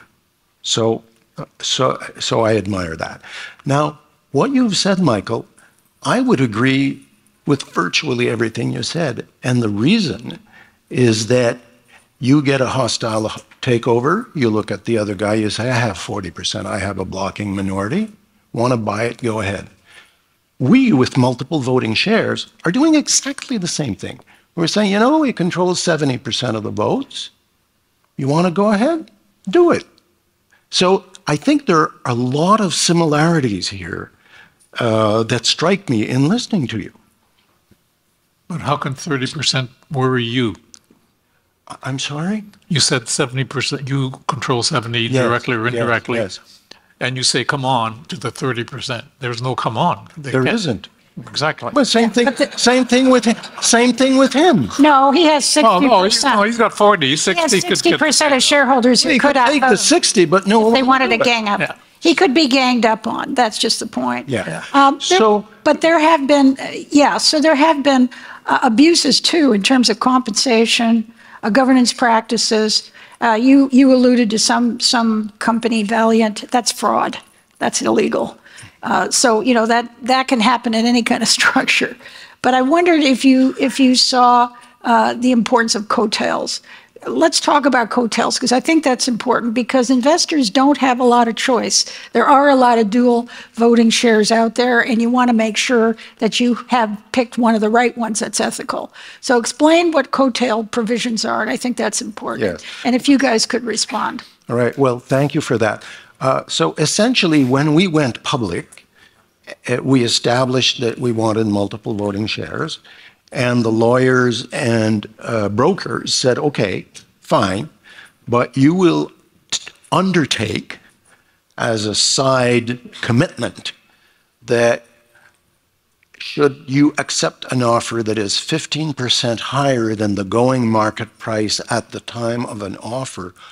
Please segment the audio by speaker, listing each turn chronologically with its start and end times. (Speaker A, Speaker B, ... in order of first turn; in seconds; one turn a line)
Speaker A: 0.6-5.5
Speaker A: 6.0-11.6
Speaker A: 12.2-19.7
Speaker A: 20.6-27.3
Speaker A: 28.2-29.8
Speaker A: 30.7-34.1
Speaker A: 34.8-37.0
Speaker B: 38.5-40.6
Speaker A: 41.7-42.5
Speaker B: 42.7-46.3
Speaker A: 45.1-46.4
Speaker B: 47.0-50.6
Speaker A: 50.3-50.9
Speaker B: 51.1-51.8
Speaker A: 51.7-54.8
Speaker C: 54.8-56.4
Speaker B: 55.6-58.5
Speaker C: 57.3-59.8
Speaker A: 59.0-61.3
Speaker C: 60.6-104.2
Speaker A: 64.2-65.4
Speaker A: 102.3-102.6
Speaker A: 104.5-108.8
Speaker A: 109.6-112.8
Speaker A: 113.3-117.7
Speaker A: 118.2-120.8
Speaker A: 121.6-123.7
Speaker A: 124.4-124.8
Speaker A: 126.2-133.3